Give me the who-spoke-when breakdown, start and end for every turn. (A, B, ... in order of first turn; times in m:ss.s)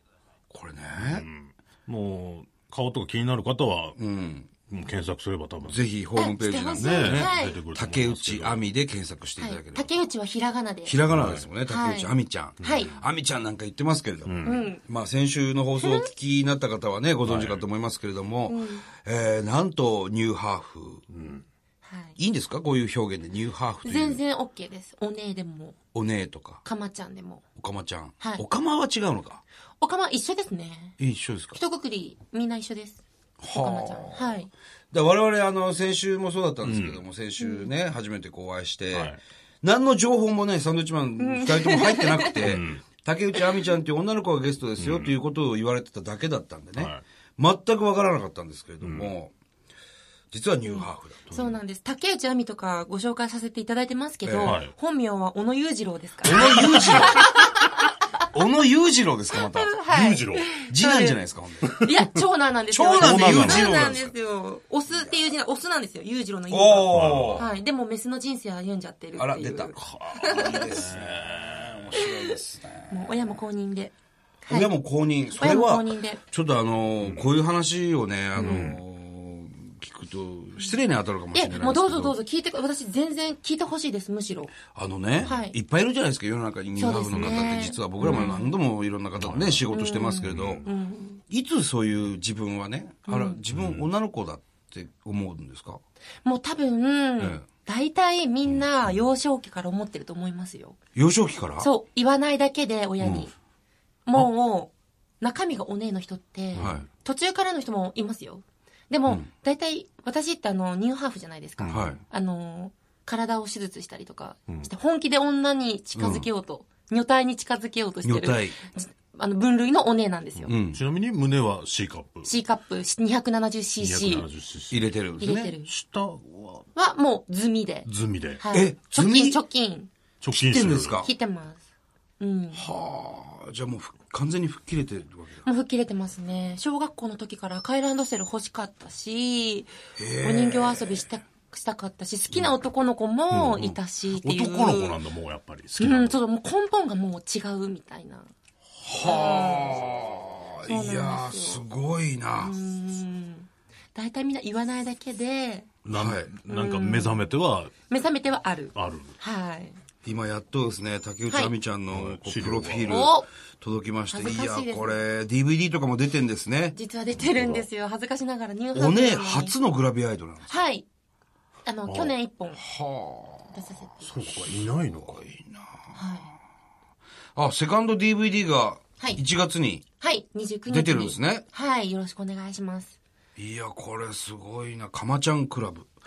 0:00.5-0:01.2 A
0:01.0-0:04.0 B
0:04.0-0:04.5 A
0:04.7-0:05.8 B
0:05.6-0:09.9 A
0:06.1-0:07.6 C
0:06.7-0:08.6 B
0:09.4-0:11.0 C
0:10.8-0:21.0 A
0:11.1-0:11.5 B
0:11.6-0:13.0 C
0:12.6-0:13.0 B
0:14.2-0:14.7 B
0:14.4-0:14.8 C
0:15.8-0:16.1 C
0:17.2-0:17.6 B
0:18.5-0:18.8 C
0:21.1-0:21.4 B
0:21.8-0:22.2 C
0:22.2-0:24.2 A
0:23.8-0:25.8 C
0:25.9-0:26.6 A
0:26.6-0:27.4 C
0:27.6-0:29.4 A
0:29.8-0:31.0 C
0:31.0-0:31.6 A
0:31.5-0:34.5 C
0:33.4-0:34.4 A
0:34.9-0:49.3 A
0:36.6-0:37.0 B
0:37.4-0:37.7 C
0:38.9-0:39.2 B
0:41.2-0:42.5 C
0:42.4-0:42.8 B
0:44.8-0:45.1 B
0:46.8-0:47.0 B
0:48.8-0:49.1 B
0:50.3-0:51.4 A
0:50.6-0:57.9 C
0:51.3-0:51.5 B
0:54.2-0:54.6 A
0:54.4-0:54.7 B
0:56.2-0:57.2 A
0:56.3-0:57.0 B
0:58.3-0:59.7 A
0:59.4-1:10.8 C
0:59.9-1:00.5 B
1:00.6-1:01.7 A
1:01.6-1:01.9 B
1:02.7-1:04.1 A
1:02.9-1:04.0 B
1:06.5-1:07.5 A
1:06.9-1:07.5 B
1:09.2-1:13.4 A
1:09.7-1:11.8 B
1:11.9-1:12.4 C
1:12.9-1:13.9 C
1:14.4-1:14.8 C
1:14.5-1:22.2 A
1:15.3-1:16.2 C
1:18.4-1:18.8 B
1:18.4-1:18.7 C
1:21.3-1:24.6 C
1:24.7-1:30.6 A
1:25.2-1:25.5 C
1:26.8-1:28.6 C
1:27.1-1:28.3 B
1:29.2-1:29.7 B
1:29.7-1:31.2 C
1:30.2-1:30.7 B
1:31.3-1:35.8 A
1:33.1-1:33.4 C
1:33.5-1:33.9 B
1:36.2-1:40.8 C
1:40.9-1:41.7 A
1:41.6-1:43.3 C
1:43.0-1:43.3 A
1:44.1-2:00.5 C
1:46.5-1:46.8 B
1:46.6-1:46.8 A
1:51.6-1:52.0 B
1:51.7-1:52.0 A
1:55.9-1:56.3 A
1:58.0-1:58.6 A
2:00.4-2:02.3 B
2:00.5-2:00.8 A
2:02.2-2:04.3 C
2:03.8-2:05.0 B
2:04.7-2:05.5 A
2:05.2-2:05.7 C
2:05.6-2:06.7 B
2:06.7-2:09.9 C
2:07.8-2:08.4 B
2:08.5-2:09.4 A
2:10.2-2:11.0 B
2:10.3-2:11.1 A
2:11.0-2:11.6 C
2:12.2-2:12.7 C
2:12.5-2:15.4 A
2:15.4-2:25.0 C
2:20.0-2:21.0 A
2:23.3-2:26.2 B
2:25.8-2:28.3 C
2:28.8-2:32.5 A
2:29.0-2:29.9 C
2:30.6-2:31.6 C
2:32.4-2:35.7 C
2:35.8-2:37.7 B
2:35.9-2:36.3 A
2:36.5-2:37.3 C
2:37.9-2:39.8 C
2:38.7-2:39.2 B
2:40.0-2:46.8 A
2:41.9-2:43.1 B
2:42.8-2:43.3 C
2:44.1-2:45.0 C
2:46.7-2:49.5 C
2:47.2-2:47.6 B
2:48.7-2:50.6 A
2:50.5-2:50.8 C
2:51.6-2:52.6 C
2:51.9-2:52.1 B
2:52.6-2:53.5 A
2:53.5-2:54.3 C
2:54.0-2:55.2 B
2:54.5-2:56.0 A
2:55.9-2:56.3 C
2:57.3-2:59.8 A
3:00.0-3:02.9 C
3:00.7-3:01.4 A
3:03.4-3:05.9 A